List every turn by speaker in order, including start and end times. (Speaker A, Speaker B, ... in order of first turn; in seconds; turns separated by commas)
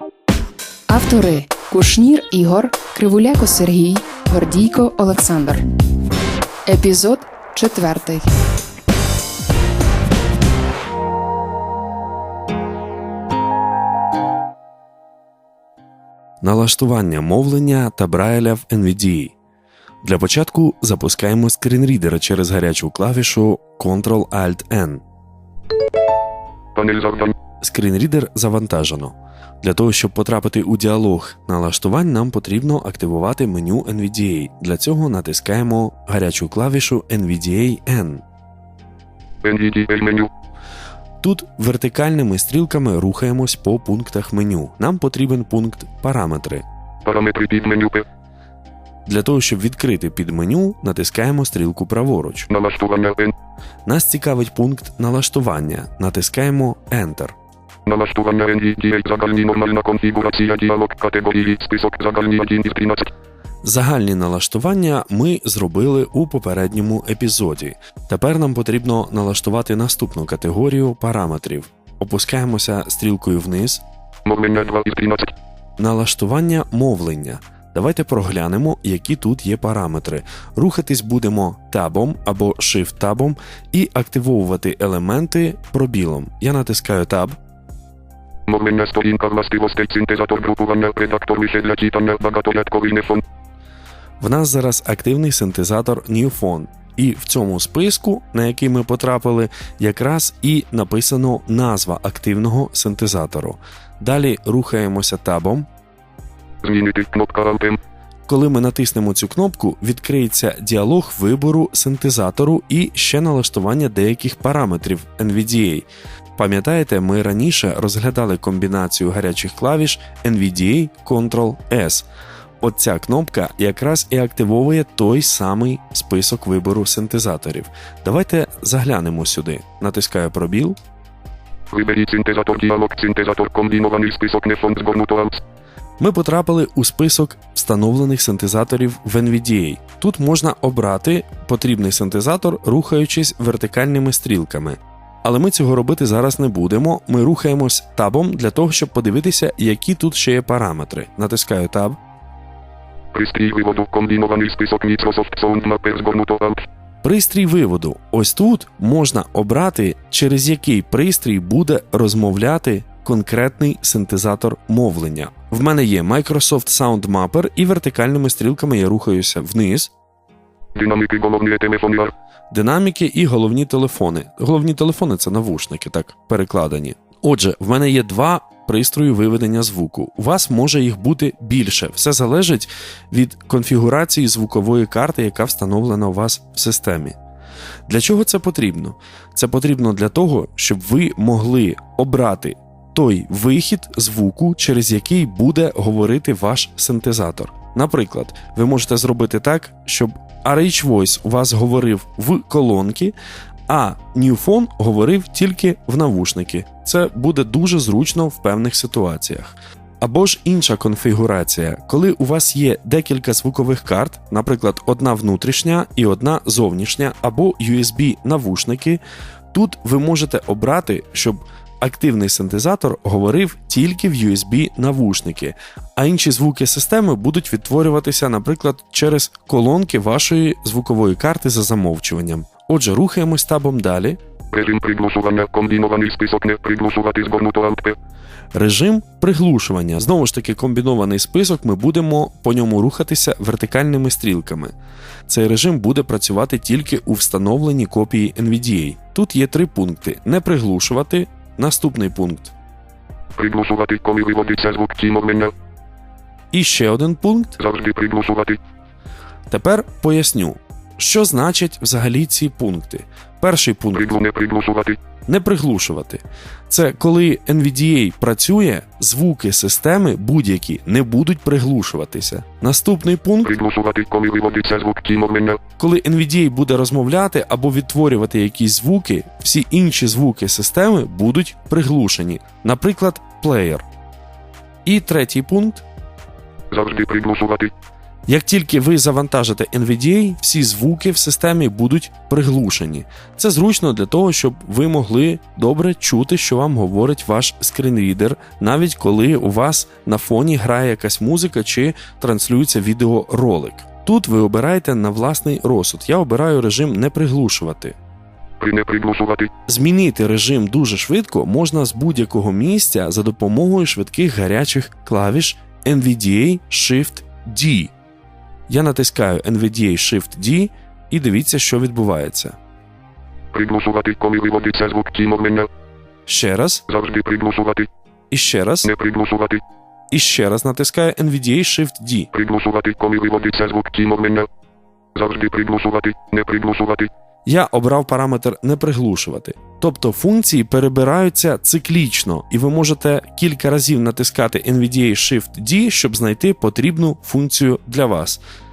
Speaker A: 0.9-5.6, Speaker A: 6.7-8.2, Speaker B: 16.4-19.3, Speaker B: 20.0-25.0, Speaker C: 26.7-27.4, Speaker B: 27.6-38.2, Speaker C: 39.4-40.3, Speaker B: 41.2-46.6, Speaker C: 47.0-48.0, Speaker B: 49.1-52.5, Speaker C: 52.5-53.3, Speaker B: 53.9-57.3, Speaker C: 57.8-63.1, Speaker B: 63.6-73.8, Speaker C: 74.2-75.3, Speaker B: 75.8-87.3, Speaker C: 88.5-93.2, Speaker B: 94.2-105.7, Speaker C: 106.6-107.8, Speaker B: 108.3-122.1, Speaker B: 122.6-130.8, Speaker C: 131.7-135.4, Speaker B: 136.0-152.0, Speaker C: 153.1-156.7, Speaker B: 157.0-169.9, Speaker C: 170.7-172.1, Speaker B: 172.5-187.2, Speaker B: 187.9-203.1, Speaker B: 203.7-219.0, Speaker B: 219.5-234.2, Speaker C: 234.5-238.0, Speaker B: 238.5-244.7, Speaker B: 245.3-252.5, Speaker C: 253.3-255.5, Speaker B: 256.5-257.6, Speaker C: 257.6-258.6, Speaker B: 259.5-264.1, Speaker C: 263.9-265.0, Speaker B: 265.3-273.6, Speaker C: 273.4-275.6, Speaker B: 275.8-283.8, Speaker B: 284.8-285.8, Speaker C: 286.7-287.7, Speaker B: 288.3-307.9, Speaker C: 308.6-309.5, Speaker B: 309.7-317.9, Speaker B: 318.7-322.6, Speaker C: 323.5-325.7, Speaker B: 326.3-326.8, Speaker C: 326.9-327.9, Speaker B: 328.3-328.9, Speaker C: 328.8-329.6, Speaker B: 330.1-332.3, Speaker C: 332.3-334.5, Speaker C: 335.1-337.1, Speaker B: 337.4-348.4